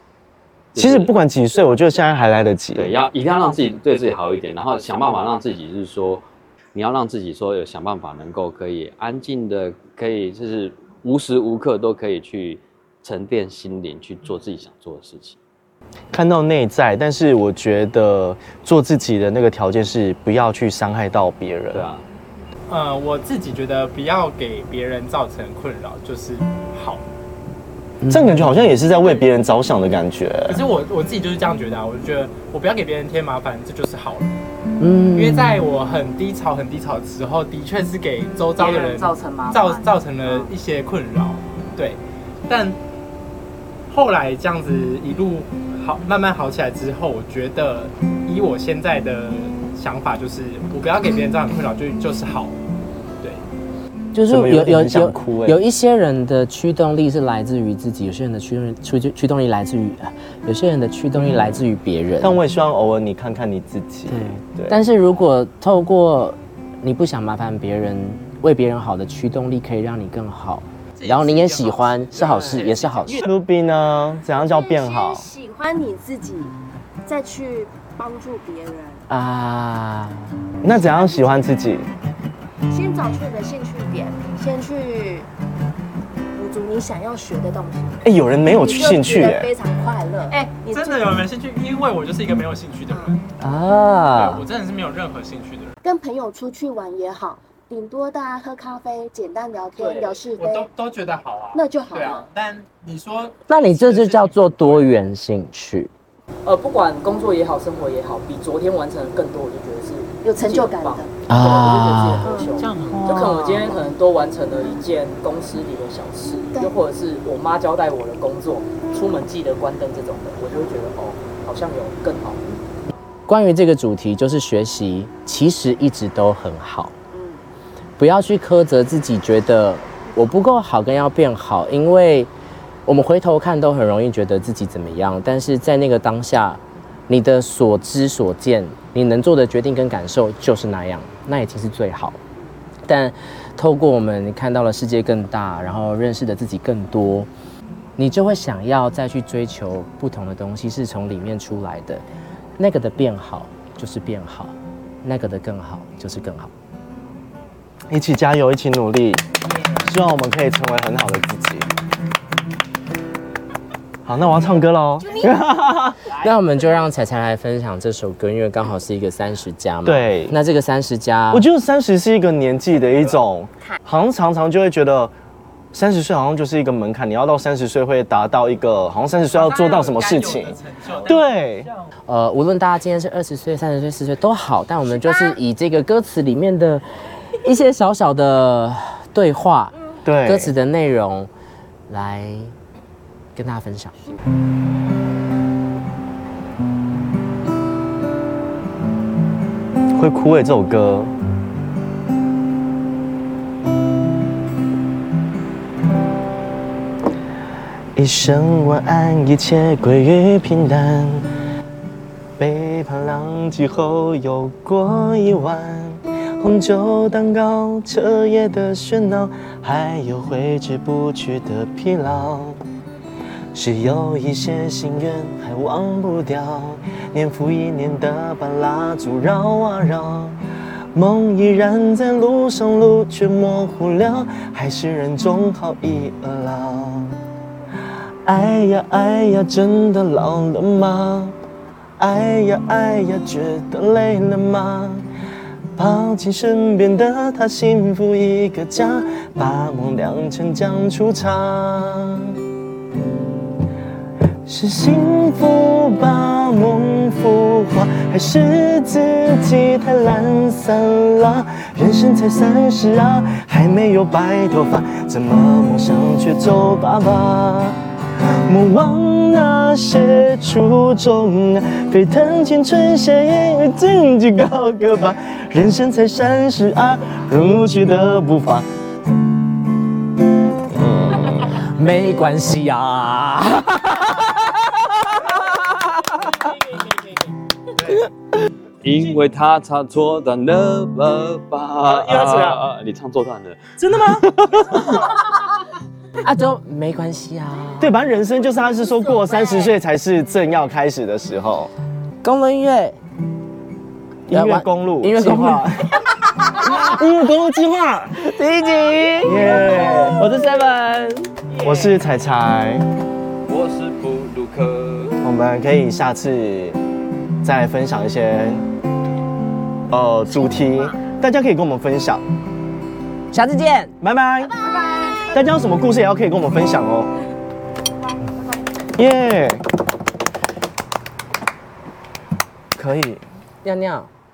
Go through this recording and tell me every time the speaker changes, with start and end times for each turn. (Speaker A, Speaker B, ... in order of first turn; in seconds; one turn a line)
Speaker A: 0.7-1.1
Speaker B: 0.8-2.9
Speaker A: 2.8-15.4
Speaker B: 16.1-21.9
Speaker A: 21.7-22.0
Speaker C: 22.7-27.0
Speaker D: 28.0-28.6
Speaker B: 28.1-30.6
Speaker C: 30.5-34.3
Speaker D: 34.8-35.6
Speaker C: 35.1-42.8
Speaker E: 38.6-40.5
Speaker C: 43.9-52.6
Speaker D: 54.1-62.4
Speaker B: 54.3-55.6
Speaker B: 62.2-64.8
Speaker D: 64.1-73.2
Speaker C: 71.0-73.3
Speaker B: 73.1-75.3
Speaker F: 74.3-76.5
Speaker F: 77.0-79.0
Speaker D: 79.1-80.3
Speaker B: 80.6-81.9
Speaker F: 80.9-81.4
Speaker F: 82.7-85.3
Speaker F: 86.3-91.2
Speaker B: 88.0-89.5
Speaker C: 90.3-93.2
Speaker F: 92.9-93.1
Speaker D: 93.4-94.5
Speaker C: 94.1-95.7
Speaker F: 95.8-100.7
Speaker E: 99.8-100.2
Speaker C: 100.4-104.9
Speaker F: 101.5-102.2
Speaker D: 103.5-105.9
Speaker E: 106.4-122.4
Speaker F: 110.2-111.1
Speaker D: 111.3-112.3
Speaker F: 112.2-113.8
Speaker C: 112.6-113.5
Speaker D: 123.3-126.9
Speaker F: 127.1-127.4
Speaker D: 128.0-132.3
Speaker D: 132.9-142.2
Speaker D: 142.9-147.3
Speaker D: 148.0-152.0
Speaker D: 152.6-156.5
Speaker B: 157.9-159.2
Speaker B: 159.7-161.7
Speaker B: 164.1-166.0
Speaker F: 165.0-165.4
Speaker D: 166.2-171.4
Speaker B: 169.9-170.4
Speaker B: 171.3-175.1
Speaker B: 175.7-181.7
Speaker C: 179.3-181.2
Speaker D: 182.1-186.8
Speaker F: 184.9-185.4
Speaker D: 187.4-191.3
Speaker B: 190.0-190.5
Speaker D: 191.9-192.5
Speaker D: 193.3-194.2
Speaker B: 199.9-201.1
Speaker B: 207.9-211.3
Speaker B: 212.4-222.6
Speaker B: 223.5-230.4
Speaker B: 230.9-237.2
Speaker B: 238.2-241.4
Speaker B: 242.0-245.1
Speaker B: 245.8-252.4
Speaker B: 254.4-278.7
Speaker B: 280.7-281.6
Speaker D: 281.4-284.9
Speaker C: 287.8-288.1
Speaker A: 288.8-295.2
Speaker C: 291.9-292.6
Speaker B: 293.8-294.8
Speaker D: 296.2-297.9
Speaker B: 297.8-301.7
Speaker F: 299.0-299.7
Speaker D: 302.2-303.0
Speaker B: 304.3-306.0
Speaker D: 304.3-305.7
Speaker D: 306.5-306.9
Speaker B: 306.5-308.1
Speaker D: 308.1-311.4
Speaker B: 309.2-310.2
Speaker B: 311.6-312.9
Speaker A: 313.5-315.1
Speaker B: 315.2-316.8
Speaker B: 317.4-318.6
Speaker B: 319.9-322.2
Speaker F: 320.3-320.9
Speaker D: 323.3-323.9
Speaker B: 324.0-324.6
Speaker F: 324.6-325.4
Speaker B: 325.3-327.1
Speaker B: 328.9-329.6
Speaker B: 332.7-333.2
Speaker D: 333.6-334.1